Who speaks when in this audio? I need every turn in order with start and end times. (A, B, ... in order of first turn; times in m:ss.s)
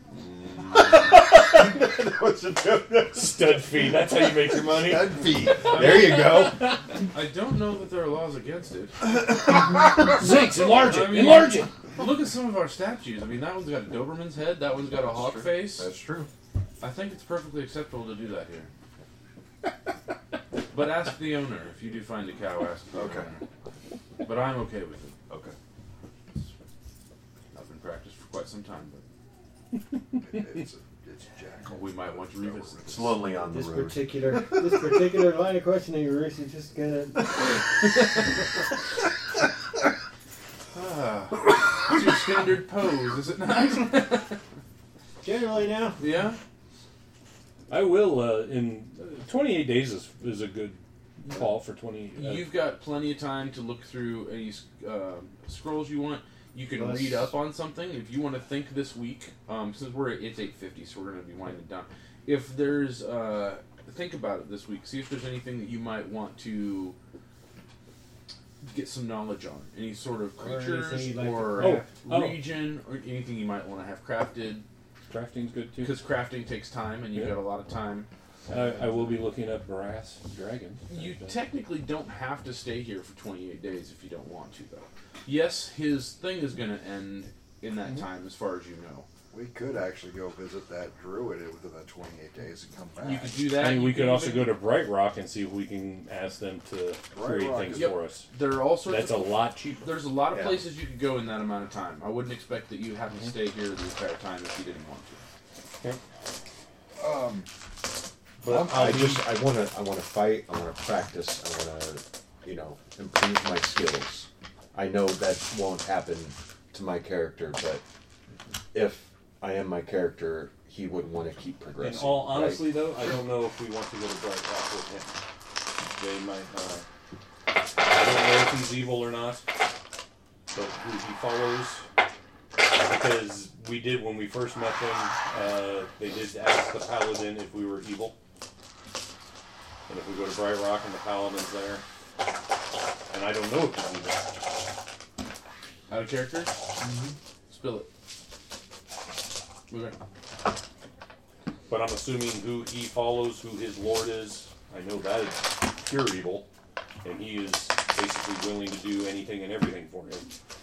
0:00.6-0:03.8 A
0:03.1-0:07.0 B
0:04.5-0:06.7 A
0:05.6-0:06.4 C
0:07.1-0:09.1 C
0:10.0-0:11.7 B
0:10.6-0:15.9 C
0:14.9-0:16.3 A
0:16.8-0:18.7 C
0:20.7-0:23.4 C
0:22.9-0:23.3 A
0:24.2-0:25.2 C
0:25.3-0:25.5 A
0:27.5-0:29.0 C
0:30.2-0:33.2 D
0:31.7-0:33.4 C
0:32.8-0:34.8 A
0:33.5-0:37.6 E
0:40.7-0:44.4 C
0:45.2-0:46.0 E
0:46.0-0:46.4 C
0:47.7-0:52.5 B
0:52.1-1:07.0 C
0:56.7-0:57.3 E
1:08.6-1:14.6 C
1:10.4-1:12.0 E
1:11.6-1:12.5 B
1:15.1-1:16.0 B
1:15.8-1:18.1 C
1:17.1-1:17.5 B
1:18.5-1:21.4 B
1:20.9-1:29.1 C
1:29.3-1:33.4 D
1:33.0-1:34.6 C
1:33.5-1:38.3 B
1:37.1-1:37.9 D
1:37.7-1:45.2 C
1:38.8-1:39.9 B
1:40.3-1:40.6 A
1:47.0-1:47.5 D
1:48.4-1:49.4 B
1:48.4-1:57.8 A
1:58.7-2:02.7 A
2:01.8-2:05.1 B
2:05.9-2:06.8 B
2:07.8-2:09.5 B
2:10.5-2:11.8 B
2:12.7-2:18.2 B
2:19.9-2:21.8 B
2:23.1-2:24.3 B
2:25.9-2:26.6 C
2:27.5-2:27.9 C
2:29.7-2:30.0 C
2:31.7-2:36.5 B
2:37.0-2:40.3 B